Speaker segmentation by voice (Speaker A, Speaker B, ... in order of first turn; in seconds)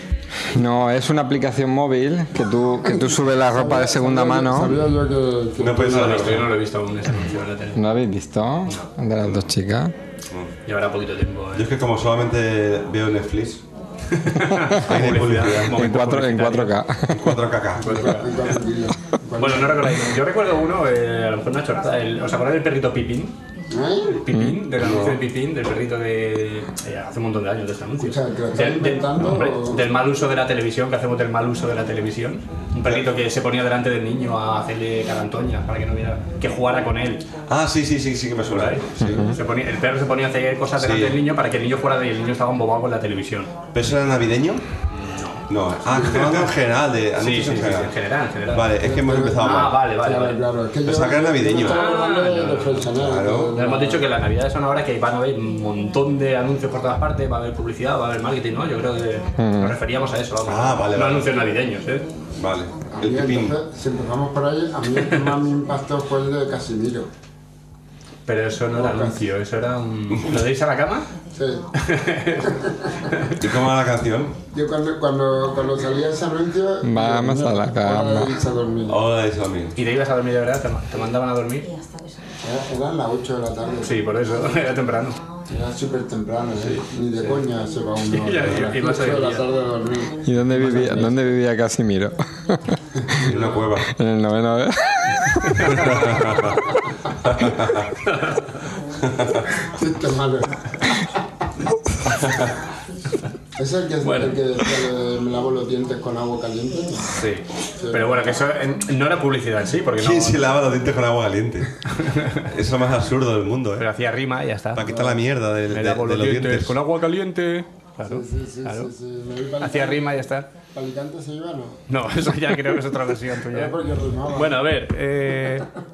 Speaker A: 0.4-4.9, 7.8-9.9, 14.5-14.8, 15.7-17.4, 24.3-24.6, 39.0-39.4, 59.4-59.8, 76.8-78.4, 90.2-92.6, 93.8-95.9
Speaker B: 3.1-6.3, 17.8-19.9, 23.7-24.2, 28.0-29.9, 45.9-46.4, 48.8-54.1, 62.9-67.1, 68.8-69.2, 71.3-71.7, 72.6-72.9, 74.5-79.0, 82.4-84.0, 85.5-91.3, 93.1-93.6, 99.6-100.8, 103.6-107.1, 107.8-108.3, 114.8-115.2, 118.1-120.0, 120.7-121.8, 123.5-124.6
Speaker C: 5.6-6.5, 11.6-13.6, 14.8-15.8, 17.1-18.0, 24.8-25.2, 37.5-39.3, 40.8-41.2, 43.7-44.7, 45.5-47.9, 48.5-49.8, 50.8-51.8, 52.9-53.5, 60.5-61.3, 62.4-63.6, 73.4-74.4, 78.9-79.8, 93.2-93.9, 95.7-96.6, 97.2-98.0, 99.0-99.5, 102.1-102.6, 110.0-111.8, 112.4-113.9, 114.8-116.8
Speaker D: 5.8-7.8, 10.7-11.7, 14.1-16.8, 17.8-18.4, 19.4-23.4, 24.2-37.3, 38.5-43.6, 44.9-45.5, 46.1-46.5, 47.2-48.8, 49.3-50.4, 51.5-52.9, 53.5-62.1, 68.3-71.1, 71.8-73.4, 79.8-81.7, 83.8-85.2, 86.6-87.4, 88.0-89.5, 95.5-96.3, 98.0-98.7, 104.0-104.4, 107.1-110.5, 111.9-112.5, 113.8-114.9, 115.7-118.9, 119.6-120.5, 121.9-123.8, 124.3-125.7